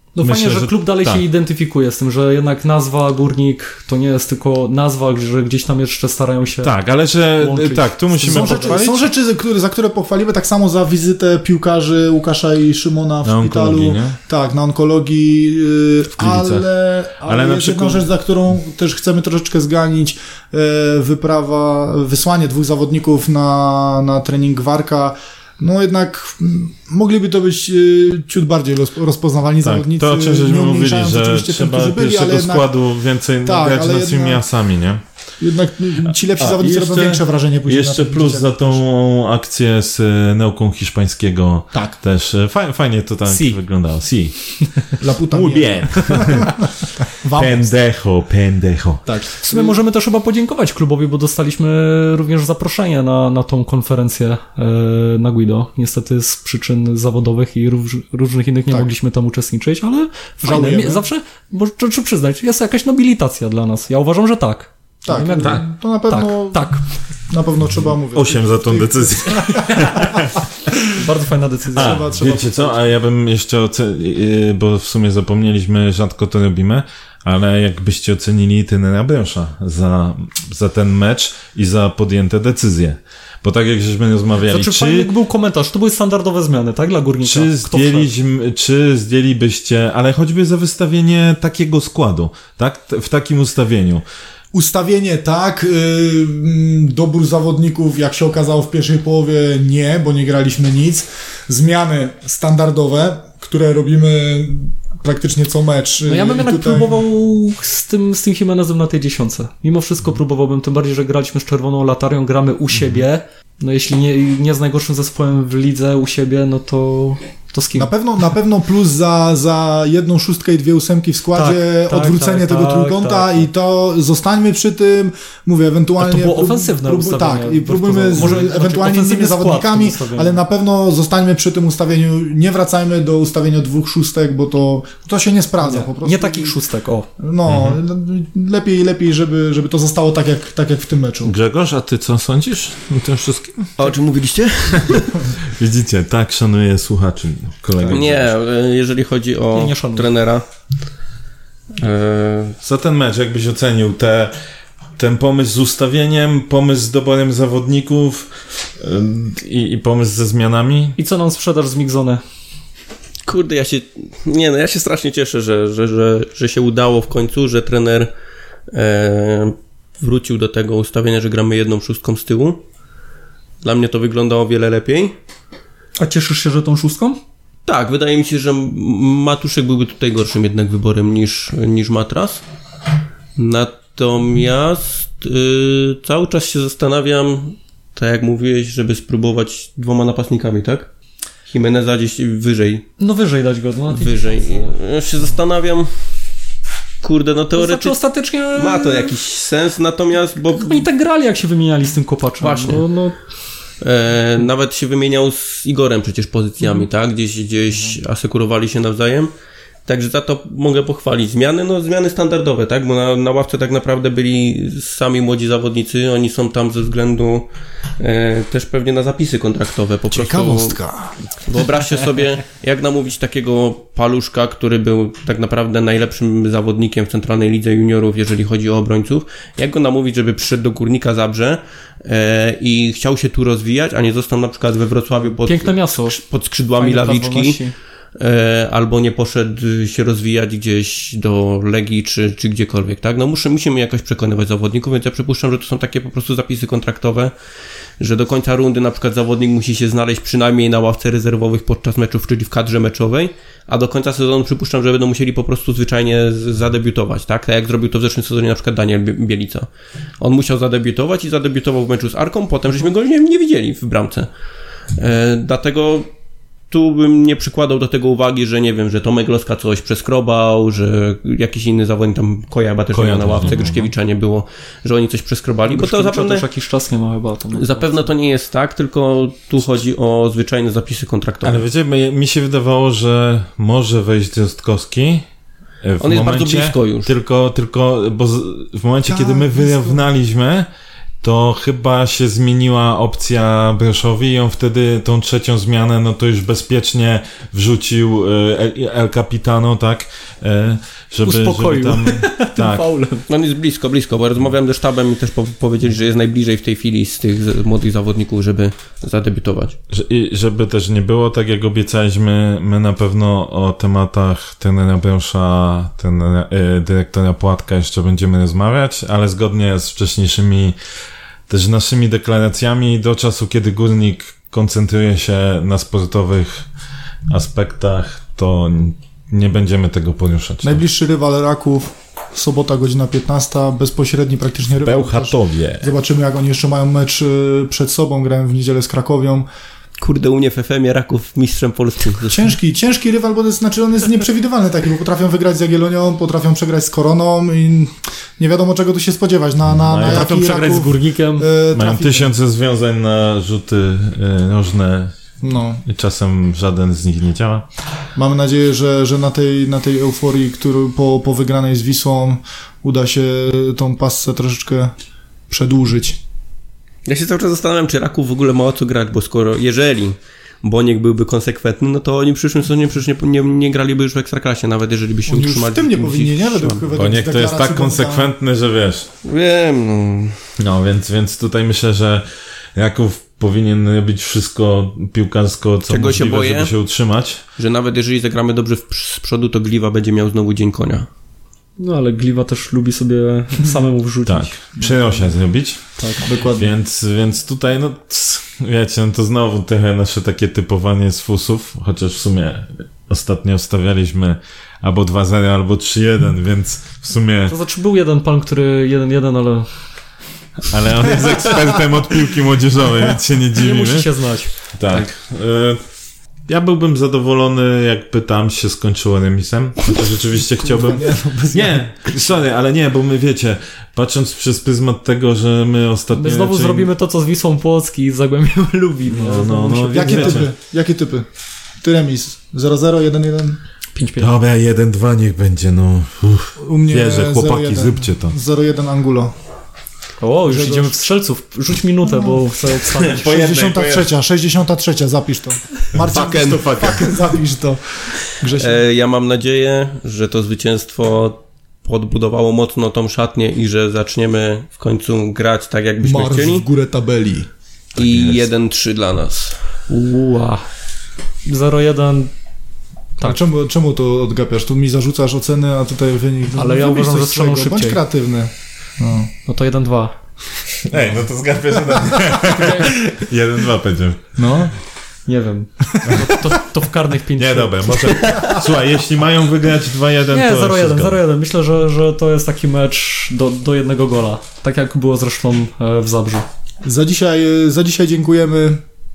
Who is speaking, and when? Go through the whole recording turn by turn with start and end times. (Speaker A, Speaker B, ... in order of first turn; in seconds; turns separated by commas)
Speaker A: 0.1-6.8, Speaker B: 0.2-1.2, Speaker B: 6.6-9.1, Speaker A: 7.4-8.8, Speaker C: 8.3-32.7, Speaker B: 13.2-14.2, Speaker B: 16.2-16.7, Speaker B: 17.2-18.1, Speaker B: 29.6-35.0, Speaker C: 33.4-34.4, Speaker C: 35.4-38.8, Speaker B: 36.4-46.7, Speaker A: 43.3-43.6, Speaker C: 45.0-46.5, Speaker C: 47.2-47.7, Speaker B: 47.4-49.1, Speaker C: 49.0-49.8, Speaker A: 49.4-66.8, Speaker C: 60.4-61.1, Speaker C: 65.0-66.7, Speaker B: 65.4-65.6, Speaker C: 67.3-70.7, Speaker B: 68.1-70.4, Speaker A: 71.0-72.1, Speaker C: 71.7-72.9, Speaker B: 71.7-85.1, Speaker A: 84.5-88.1, Speaker B: 87.2-94.0, Speaker C: 94.5-107.0, Speaker A: 106.1-117.9, Speaker B: 112.8-113.0, Speaker C: 117.8-136.6, Speaker A: 121.3-123.5, Speaker A: 126.0-130.4, Speaker A: 135.6-137.1, Speaker C: 137.2-141.3, Speaker B: 137.5-137.8, Speaker B: 141.2-143.8, Speaker D: 143.8-145.3, Speaker B: 145.6-148.3, Speaker D: 147.8-150.4, Speaker A: 149.5-150.1, Speaker D: 151.8-152.6, Speaker B: 152.6-154.3, Speaker B: 155.0-161.0, Speaker A: 161.0-162.2, Speaker D: 163.3-168.1, Speaker D: 168.7-172.6, Speaker D: 173.6-175.2, Speaker A: 176.0-177.2, Speaker D: 177.7-182.4, Speaker D: 183.4-190.9, Speaker D: 191.5-192.9, Speaker A: 193.0-194.7, Speaker D: 193.9-195.9, Speaker D: 197.0-200.9, Speaker A: 197.6-199.1, Speaker A: 200.6-203.2, Speaker D: 202.4-202.9, Speaker D: 203.8-209.3, Speaker D: 209.9-220.8, Speaker C: 220.1-221.2, Speaker D: 221.4-237.6, Speaker A: 235.2-236.2, Speaker A: 236.8-237.7, Speaker D: 238.2-247.3, Speaker D: 248.0-259.7, Speaker D: 260.2-264.3, Speaker D: 264.9-266.1, Speaker D: 266.7-276.4, Speaker B: 272.9-273.9, Speaker A: 275.7-278.1, Speaker D: 277.5-281.6, Speaker B: 281.4-285.3, Speaker B: 285.8-290.7, Speaker D: 286.0-287.1, Speaker C: 289.1-290.0, Speaker B: 291.2-302.9, Speaker A: 301.2-303.3, Speaker D: 303.3-309.8, Speaker B: 309.9-320.8, Speaker B: 321.5-326.7, Speaker B: 327.3-330.8, Speaker C: 330.6-339.5, Speaker B: 334.9-335.9, Speaker D: 340.0-342.4, Speaker C: 342.3-352.3, Speaker B: 349.7-350.4, Speaker A: 350.0-351.5, Speaker B: 351.7-355.3, Speaker C: 355.4-355.8, Speaker B: 355.9-357.7, Speaker C: 358.2-364.9, Speaker C: 365.5-366.2, Speaker D: 367.1-376.9, Speaker C: 375.3-378.3, Speaker B: 376.9-379.1, Speaker D: 379.2-380.4, Speaker B: 380.6-387.4, Speaker D: 385.9-386.7, Speaker D: 387.6-391.1, Speaker A: 391.8-394.6, Speaker B: 394.3-407.6, Speaker C: 396.1-396.7, Speaker A: 407.5-409.9, Speaker B: 410.7-414.1, Speaker A: 413.6-415.0, Speaker B: 414.6-415.8, Speaker B: 416.5-426.9, Speaker C: 420.6-422.2, Speaker A: 426.1-430.5, Speaker B: 429.1-430.5, Speaker C: 429.9-431.3, Speaker C: 431.8-433.6, Speaker A: 434.0-434.3, Speaker B: 434.2-438.4, Speaker C: 436.6-439.3, Speaker A: 440.2-443.3, Speaker C: 440.5-441.0, Speaker C: 442.0-448.8, Speaker B: 443.0-444.1, Speaker B: 445.9-447.4, Speaker D: 446.1-446.8, Speaker D: 448.5-456.7, Speaker C: 456.0-457.5, Speaker B: 458.0-458.5, Speaker D: 458.0-459.6, Speaker A: 459.9-460.6, Speaker A: 461.4-462.3, Speaker C: 463.2-469.3, Speaker A: 466.5-468.0, Speaker A: 469.5-470.1, Speaker B: 470.8-474.4, Speaker C: 470.9-471.2, Speaker C: 471.9-472.1, Speaker A: 472.5-472.9, Speaker C: 474.4-474.7, Speaker A: 475.3-478.3, Speaker B: 477.4-481.2, Speaker C: 478.3-478.6, Speaker A: 480.3-486.5, Speaker C: 486.8-488.8